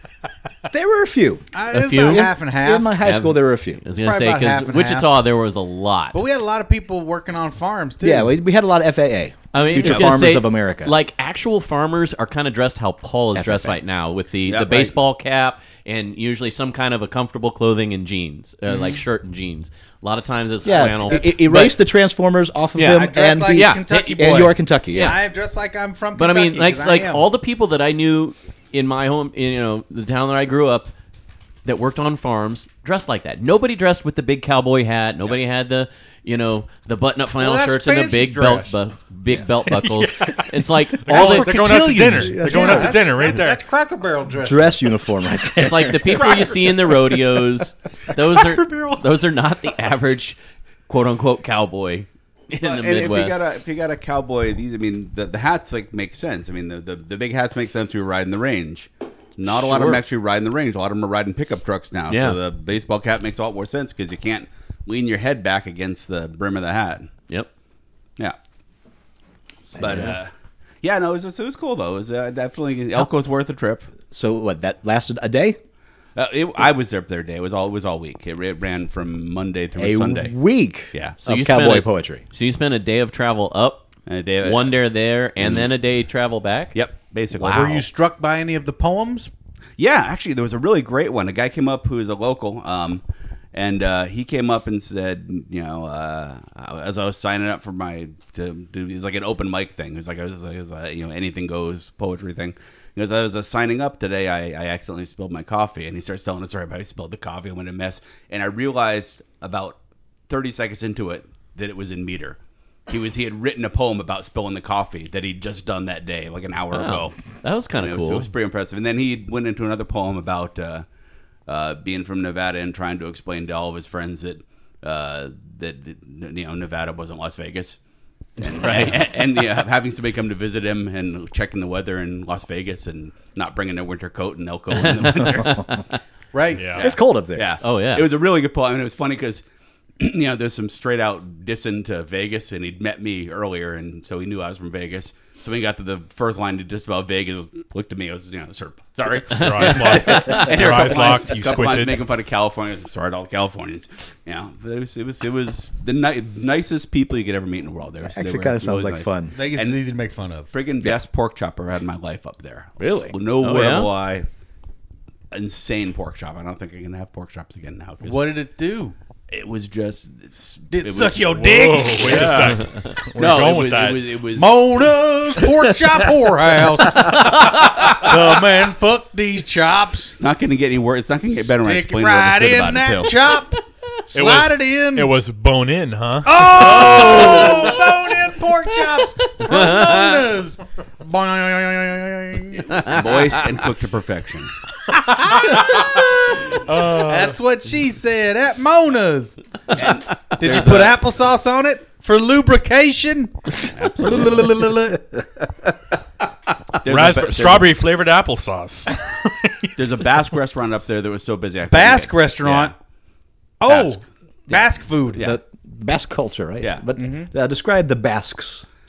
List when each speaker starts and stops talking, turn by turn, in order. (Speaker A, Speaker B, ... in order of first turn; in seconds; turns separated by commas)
Speaker A: 0.7-1.4, Speaker B: 1.5-3.0, Speaker C: 1.7-2.3, Speaker A: 2.0-3.8, Speaker C: 3.0-6.2, Speaker B: 3.9-5.2, Speaker B: 6.1-8.3, Speaker A: 8.0-10.9, Speaker C: 9.5-21.8, Speaker D: 9.8-10.2, Speaker A: 13.3-13.8, Speaker D: 14.5-14.9, Speaker A: 20.6-25.1, Speaker B: 21.1-21.3, Speaker C: 22.8-25.2, Speaker B: 22.8-27.2, Speaker C: 26.1-30.9, Speaker C: 31.6-42.3, Speaker B: 37.4-38.7, Speaker E: 41.0-43.6, Speaker A: 41.1-41.5, Speaker A: 42.2-43.0, Speaker B: 42.4-44.8, Speaker A: 44.4-46.4, Speaker C: 45.6-50.4, Speaker C: 50.9-53.4, Speaker D: 52.6-67.1, Speaker C: 59.5-60.0, Speaker C: 62.1-62.4, Speaker A: 69.7-70.2, Speaker D: 69.8-70.3, Speaker D: 70.8-73.9, Speaker A: 74.1-75.6, Speaker D: 76.2-80.3, Speaker A: 79.8-82.2, Speaker C: 81.2-83.9, Speaker D: 84.0-84.8, Speaker C: 84.4-86.7, Speaker D: 86.7-87.8, Speaker B: 87.4-89.3, Speaker D: 89.8-93.0, Speaker D: 93.5-109.8, Speaker D: 110.3-117.2, Speaker C: 116.7-118.3, Speaker D: 117.7-120.8, Speaker D: 121.5-127.8, Speaker D: 128.4-135.8, Speaker C: 128.6-128.9, Speaker C: 134.9-135.6, Speaker A: 135.4-135.6, Speaker B: 136.3-136.8, Speaker E: 136.5-136.9, Speaker D: 136.8-139.4, Speaker A: 136.8-137.5, Speaker C: 137.6-138.1, Speaker D: 140.0-159.8, Speaker E: 149.3-152.0, Speaker C: 149.9-150.4, Speaker A: 158.0-159.3, Speaker B: 159.3-160.5, Speaker D: 160.5-164.3, Speaker A: 162.8-163.2, Speaker C: 163.4-163.9, Speaker D: 165.3-168.3, Speaker B: 168.0-168.9, Speaker D: 169.3-174.9, Speaker B: 170.7-172.4, Speaker E: 171.2-174.1, Speaker B: 174.3-180.2, Speaker D: 180.2-183.2, Speaker B: 181.5-185.1, Speaker E: 184.1-187.9, Speaker B: 186.2-193.1, Speaker D: 187.3-187.6, Speaker D: 192.7-194.5, Speaker B: 194.9-199.4, Speaker E: 196.6-197.4, Speaker D: 199.7-201.0, Speaker B: 200.3-205.1, Speaker D: 203.7-204.6, Speaker D: 206.8-207.7, Speaker E: 206.8-210.0, Speaker D: 209.8-212.7, Speaker B: 211.7-212.7, Speaker B: 213.6-215.3, Speaker D: 213.7-215.4, Speaker A: 215.2-218.6, Speaker D: 216.6-216.8, Speaker B: 217.0-217.3